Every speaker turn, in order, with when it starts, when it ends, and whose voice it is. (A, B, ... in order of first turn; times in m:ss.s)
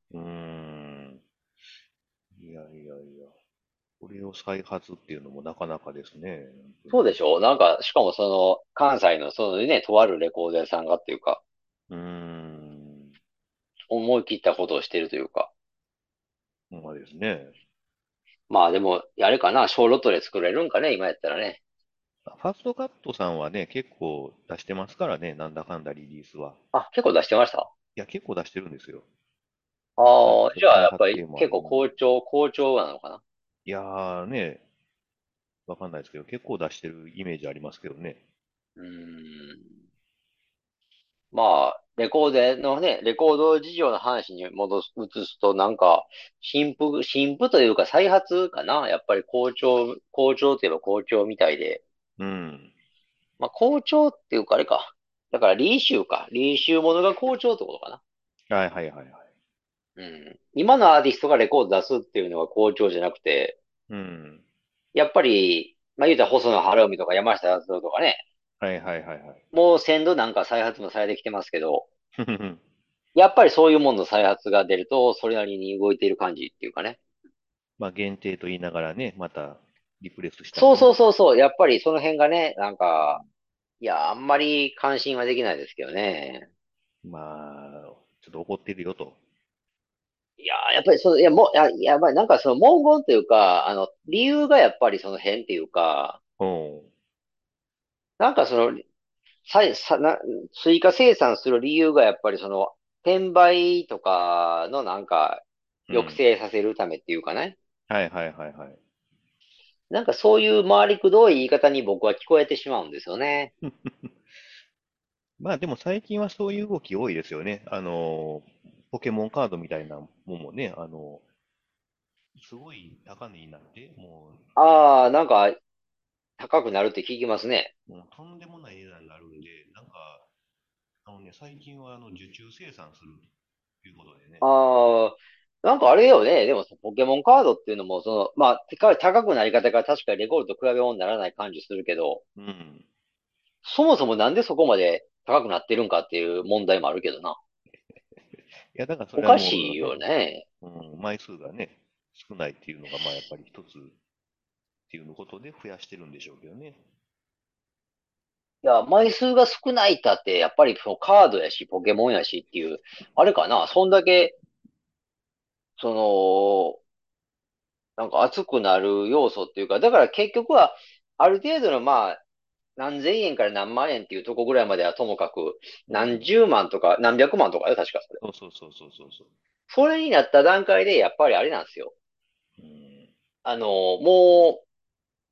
0:00.1-0:01.2 A
0:02.4-0:03.3 A
0:04.0-0:07.2 A
0:06.9-0:11.4 B
0:11.9-0:13.1 A
0:13.9-0:15.5 B
0:16.7-0:17.5 A
0:18.5-0:21.6 B
0:22.3-0:26.6 A
0:26.7-0:27.7 B
0:28.0-0:29.0 A
0:30.0-0:33.2 B
0:30.2-0:31.9 A
0:33.7-0:34.6 A
0:35.7-0:38.2 A
0:38.8-0:39.7 B
0:41.3-0:51.8 B
0:52.2-0:52.7 A
0:53.4-0:58.0 B
0:58.5-0:59.2 A
1:00.0-1:03.6 B
1:03.9-1:04.4 A
1:04.9-1:08.2 B
1:08.6-1:09.4 A
1:09.5-1:11.9 B
1:12.2-1:12.6 A
1:13.2-1:17.0 B
1:17.8-1:20.9 A
1:20.6-1:23.2 B
1:23.0-1:23.3 A
1:23.8-1:26.5 B
1:27.0-1:29.2 A
1:30.4-1:36.2 B
1:36.4-1:36.9 A
1:38.2-1:38.8 B
1:39.5-1:47.6 B
1:45.9-1:46.2 A
1:47.9-1:48.8 A
1:49.9-1:53.5 B
1:53.6-1:54.2 A
1:55.4-2:01.2 A
2:02.4-2:04.6 A
2:04.6-2:05.6 B
2:06.4-2:07.7 B
2:07.9-2:10.3 A
2:11.0-2:13.3 A
2:13.8-2:14.4 A
2:14.4-2:22.2 B
2:22.4-2:22.8 A
2:23.6-2:27.4 B
2:28.3-2:30.0 A
2:29.2-2:30.4 B
2:30.6-2:34.0 A
2:34.9-2:36.8 A
2:38.6-2:44.4 B
2:45.8-2:46.8 B
2:48.0-2:52.2 B
2:52.8-2:58.2 B
2:55.9-2:56.3 A
2:58.2-2:59.3 A
2:59.7-3:01.9 B
3:02.6-3:03.1 A
3:03.4-3:04.6 B